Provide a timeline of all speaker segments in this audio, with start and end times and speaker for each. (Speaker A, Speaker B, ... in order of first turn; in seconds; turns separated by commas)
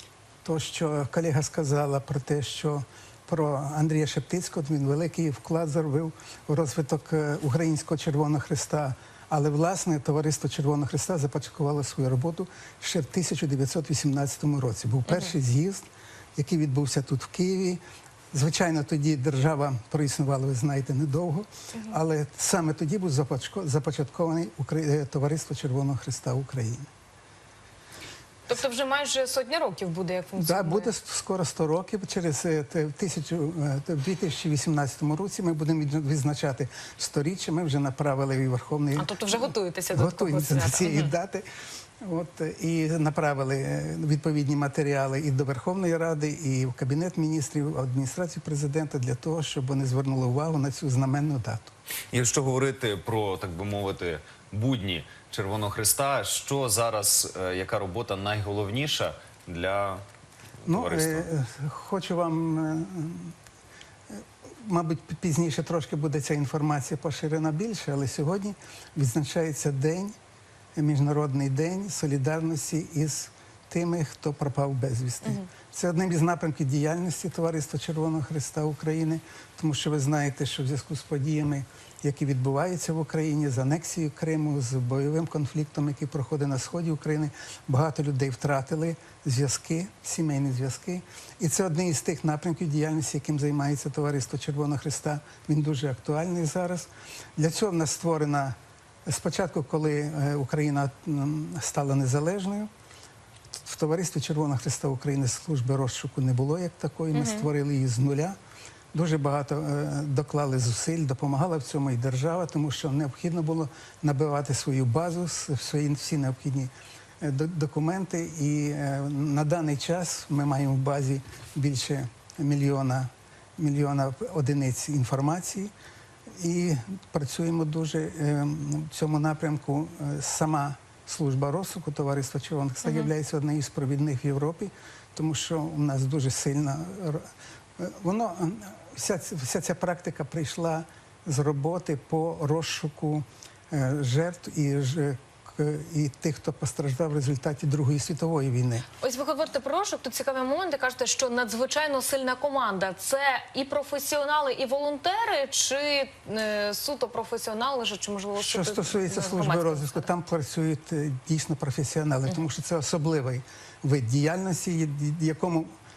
Speaker A: 0.5-17.8, Speaker A: 18.3-26.9, Speaker B: 21.7-22.0, Speaker B: 28.5-30.9, Speaker A: 30.4-41.5, Speaker B: 39.0-41.1, Speaker A: 42.0-51.7, Speaker C: 52.1-60.0, Speaker C: 60.6-61.3, Speaker A: 60.7-63.4, Speaker A: 64.1-70.2, Speaker A: 70.8-98.5, Speaker A: 99.1-102.7, Speaker A: 103.6-108.4, Speaker B: 107.1-107.5, Speaker A: 108.9-125.7, Speaker A: 126.4-137.3, Speaker A: 137.8-148.9, Speaker B: 149.0-160.1, Speaker A: 158.4-165.7